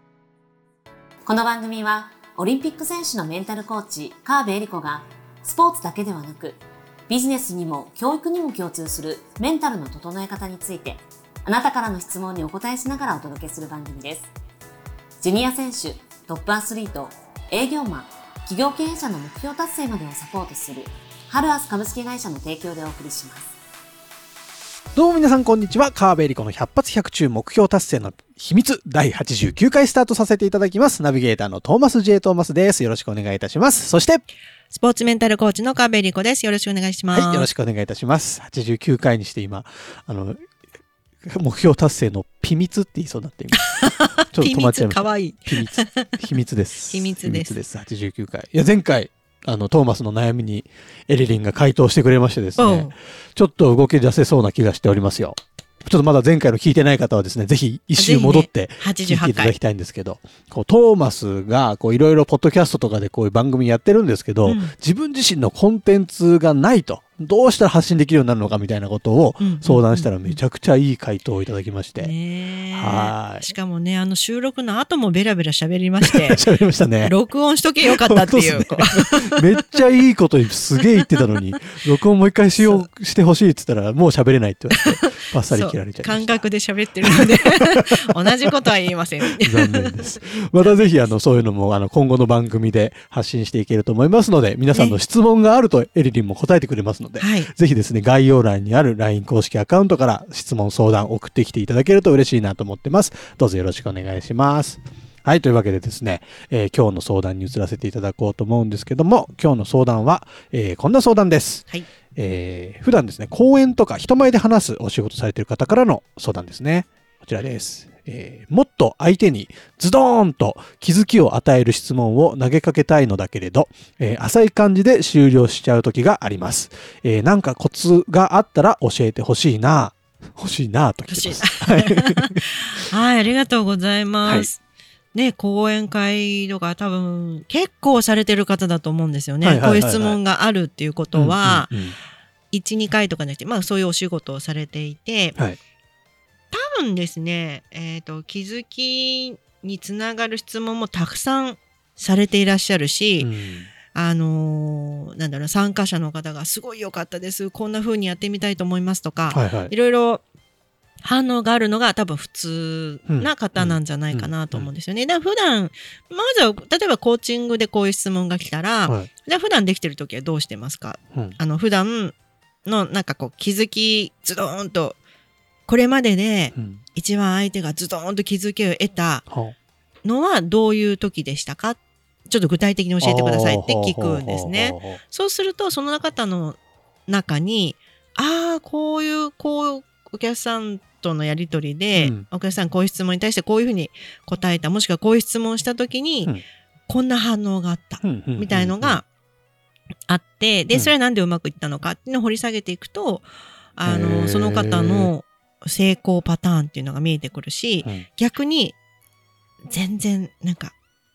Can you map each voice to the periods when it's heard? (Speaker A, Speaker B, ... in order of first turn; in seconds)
Speaker A: 1.3-14.3, 15.2-23.5
Speaker B: 24.9-34.2, 37.1-40.4, 41.2-72.1, 72.7-73.5, 76.0-77.1, 77.9-86.5, 87.1-87.9, 89.4-132.8, 134.2-134.5, 139.4-140.2, 141.1-142.0, 153.2-153.7, 159.3-159.7, 163.1-164.7, 176.6-176.8, 179.3-179.5, 183.0-185.0, 191.9-192.2, 198.0-199.0, 203.8-205.1
Speaker C: 34.7-37.5, 43.7-46.2, 46.9-47.6, 52.6-52.9, 58.0-59.6, 64.5-64.7, 69.4-70.4, 72.0-76.4, 77.0-79.5, 82.6-82.9, 84.8-90.9, 94.7-95.0, 97.2-97.5, 131.1-134.6, 135.1-141.8, 142.5-145.4, 146.5-153.3, 153.9-160.2, 161.0-172.2, 172.7-175.0, 175.7-179.3, 180.0-196.3, 196.9-199.1, 200.1-208.8, 209.7-210.8